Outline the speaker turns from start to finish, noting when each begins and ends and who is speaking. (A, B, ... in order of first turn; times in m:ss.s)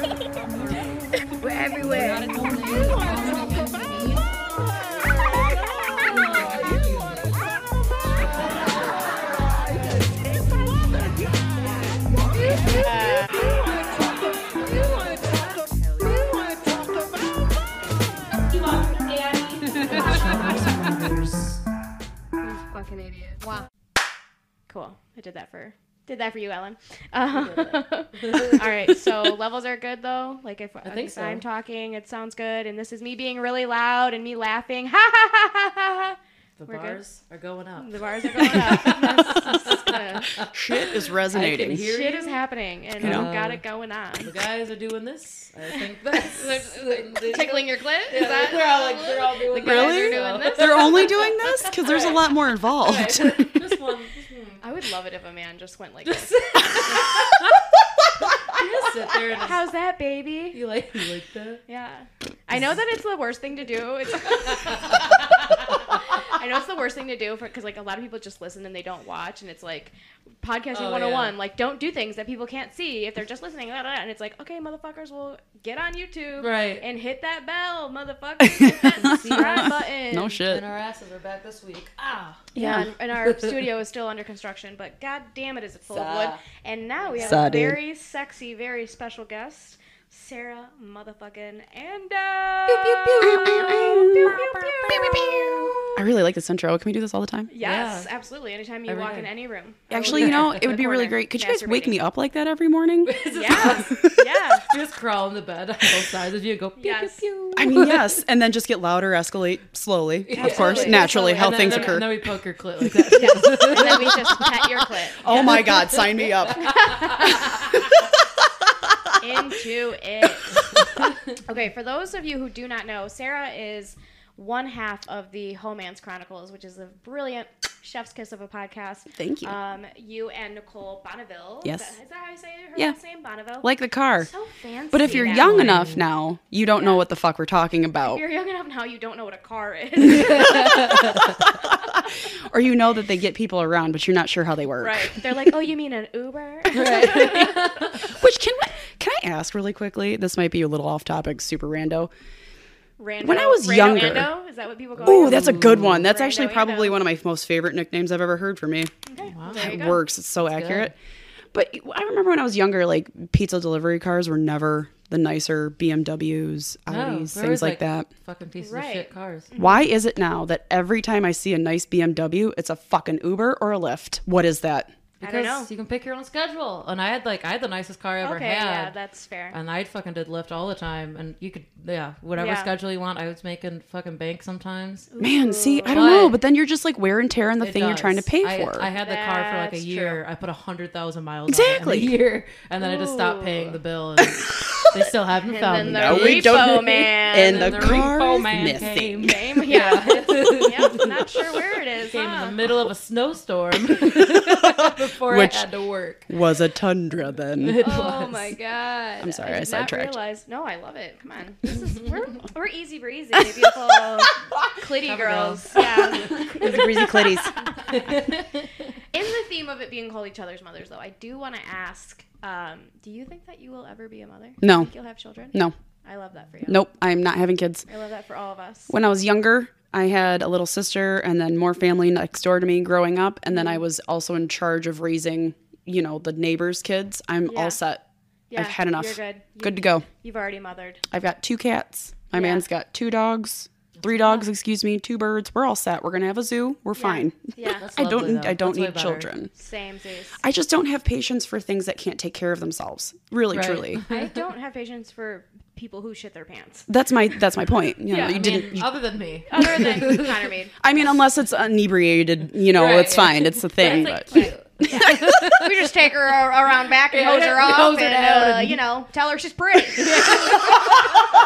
0:00.4-0:04.3 A
0:05.9-0:07.0 A
0:12.7-0:13.6 A
0:14.5-0:17.2 A
0:19.6-0:21.6 B
0:19.8-0:20.2 A
0:22.4-0:23.7 A
0:24.7-0:37.0 C
0:28.2-0:28.6 B
0:30.8-0:31.4 B
0:36.6-0:42.4 B
0:37.8-0:40.3 C
0:40.5-0:41.9 D
0:41.8-0:44.3 C
0:43.0-0:43.6 B
0:43.0-0:43.3 D
0:44.1-0:54.6 B
0:45.7-0:52.2 C
0:49.6-0:53.6 D
0:54.6-0:57.1 C
0:56.0-0:57.6 B
0:58.2-0:59.6 B
0:59.4-1:00.6 C
1:00.5-1:01.6 B
1:01.7-1:20.4 C
1:04.6-1:05.0 B
1:10.7-1:11.4 B
1:16.4-1:16.8 B
1:18.4-1:20.6 D
1:19.0-1:19.7 B
1:20.4-1:22.5 B
1:22.5-1:22.9 D
1:22.5-1:35.9 C
1:23.2-1:23.5 B
1:25.9-1:26.3 D
1:27.1-1:27.4 B
1:27.2-1:27.8 D
1:32.7-1:34.1 B
1:33.2-1:37.5 D
1:34.8-1:35.7 B
1:37.5-1:42.0 C
1:37.6-1:38.1 B
1:38.9-1:39.3 B
1:39.9-1:44.2 D
1:40.1-1:40.6 B
1:43.0-1:44.0 B
1:43.3-1:44.6 C
1:44.6-1:48.2 B
1:46.8-1:47.2 C
1:47.6-1:52.2 D
1:50.3-1:54.4 B
1:50.3-1:52.0 C
1:53.1-1:57.3 C
1:53.7-1:54.6 D
1:55.2-1:57.2 D
1:55.2-1:57.3 B
1:57.7-1:58.0 D
1:59.2-2:15.8 C
2:09.1-2:09.5 D
2:11.6-2:11.9 D
2:13.6-2:14.3 D
2:14.9-2:18.2 D
2:15.0-2:16.0 B
2:18.0-2:21.2 C
2:20.2-2:20.8 D
2:21.6-2:25.5 D
2:24.8-2:27.7 C
2:26.7-2:28.0 B
2:28.0-2:32.1 D
2:33.0-2:37.0 C
2:33.2-2:34.3 D
2:35.0-2:38.9 D
2:35.0-2:36.1 B
2:39.1-2:40.0 C
2:39.3-2:40.9 B
2:39.5-2:40.9 D
2:41.5-2:48.1 D
2:46.9-2:49.5 B
2:48.6-2:49.9 C
2:49.6-2:54.9 D
2:55.2-2:55.7 C
2:55.2-2:58.9 B
2:58.2-2:59.5 C
2:59.5-3:05.1 B
3:02.3-3:02.7 C
3:05.1-3:06.3 C
3:05.2-3:08.9 D
3:05.9-3:06.4 B
3:07.6-3:21.1 B
3:09.0-3:10.2 C
3:11.5-3:12.2 D
3:12.8-3:13.8 C
3:15.5-3:18.1 C
3:15.8-3:19.6 D
3:18.7-3:22.6 C
3:22.1-3:26.3 B
3:24.3-3:25.6 D
3:26.3-3:27.9 D
3:27.6-3:28.5 B
3:27.8-3:38.1 C
3:29.2-3:30.2 D
3:33.4-3:33.7 D
3:35.0-3:37.2 B
3:36.2-3:37.5 D
3:37.9-3:38.6 B
3:39.1-3:46.8 C
3:44.6-3:44.9 D
3:46.7-3:47.8 D
3:47.9-3:48.9 C
3:48.9-3:58.0 D
3:53.5-3:53.8 C
3:57.4-3:57.8 C
3:58.5-4:01.0 C
3:58.5-4:00.0 D
4:01.1-4:09.5 D
4:02.3-4:02.6 C
4:07.0-4:07.8 C
4:07.8-4:09.3 B
4:09.6-4:10.4 C
4:10.4-4:14.0 D
4:13.5-4:14.3 B
4:14.1-4:16.9 C
4:16.9-4:19.0 D
4:18.1-4:18.4 C
4:18.1-4:20.5 B
4:19.5-4:20.7 C
4:20.8-4:25.6 D
4:22.7-4:25.7 B
4:23.8-4:24.6 C
4:25.5-4:30.5 C
4:27.1-4:28.8 B
4:30.0-4:31.2 B